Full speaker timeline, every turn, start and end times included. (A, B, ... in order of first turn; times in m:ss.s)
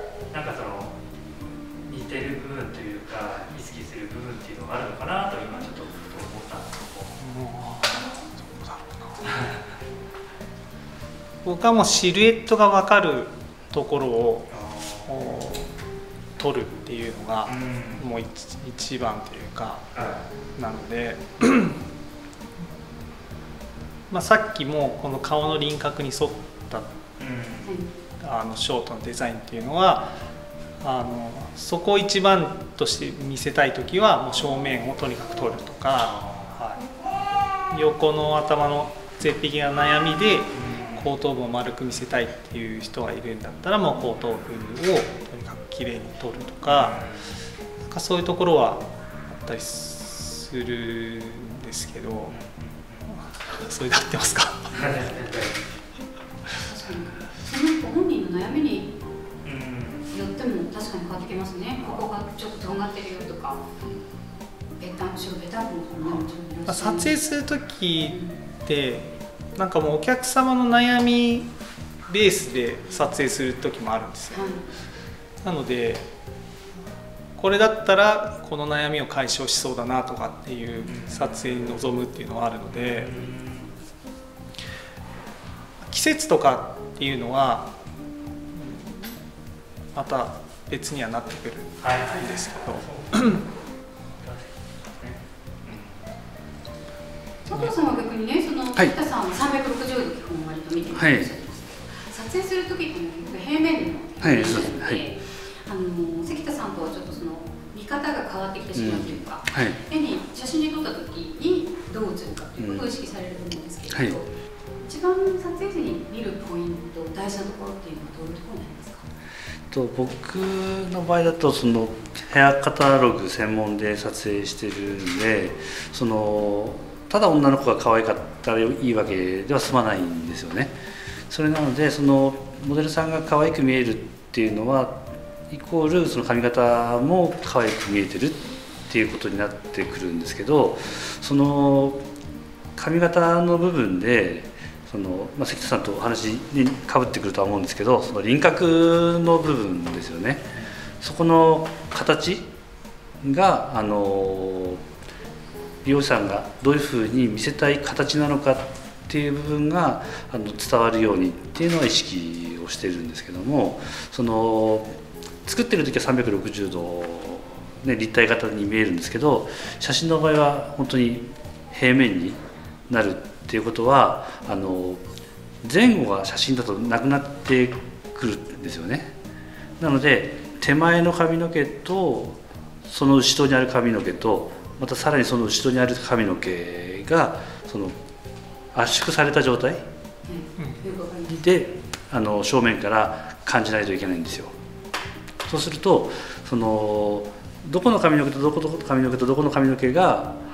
0:00.3-0:00.9 A
0:01.9-0:07.1 A
0:07.2-0:09.5 B
0:11.4-0:14.5 B
0:14.6-0:15.0 A
0:15.1-0:15.7 B
0:16.4-0:21.8 B
0:17.6-0:18.0 A
0:24.1-0:26.9 B
0:27.2-0:27.6 A
0:27.6-0:27.9 C
0:28.2-0:30.2 B
0:30.8-0:36.8 B
0:37.7-0:47.1 B
0:47.9-0:48.9 B
0:49.4-0:52.4 B
0:53.1-0:54.8 B
0:54.9-0:55.5 A
0:56.6-0:58.9 C
0:59.4-1:00.0 A
1:00.1-1:03.6 C
1:04.8-1:07.2 C
1:06.7-1:11.5 B
1:08.1-1:08.4 C
1:12.1-1:14.5 B
1:14.3-1:14.7 C
1:15.4-1:16.1 B
1:17.4-1:23.3 B
1:23.0-1:23.7 A
1:25.8-1:27.7 B
1:28.5-1:29.2 B
1:30.0-1:33.4 B
1:37.5-1:59.0 C
1:41.0-1:41.3 D
1:44.2-1:45.0 D
1:48.8-1:49.8 D
1:52.6-1:52.9 D
1:53.9-1:54.2 D
1:59.7-2:10.7 D
2:11.3-2:22.1 D
2:22.8-2:32.5 D
2:33.2-2:34.8 D
2:35.8-2:55.0 D
2:55.6-2:59.1 D
2:59.8-3:08.0 D
3:08.7-3:09.9 D
3:10.3-3:11.4 C
3:11.3-3:14.5 D
3:15.5-3:20.4 D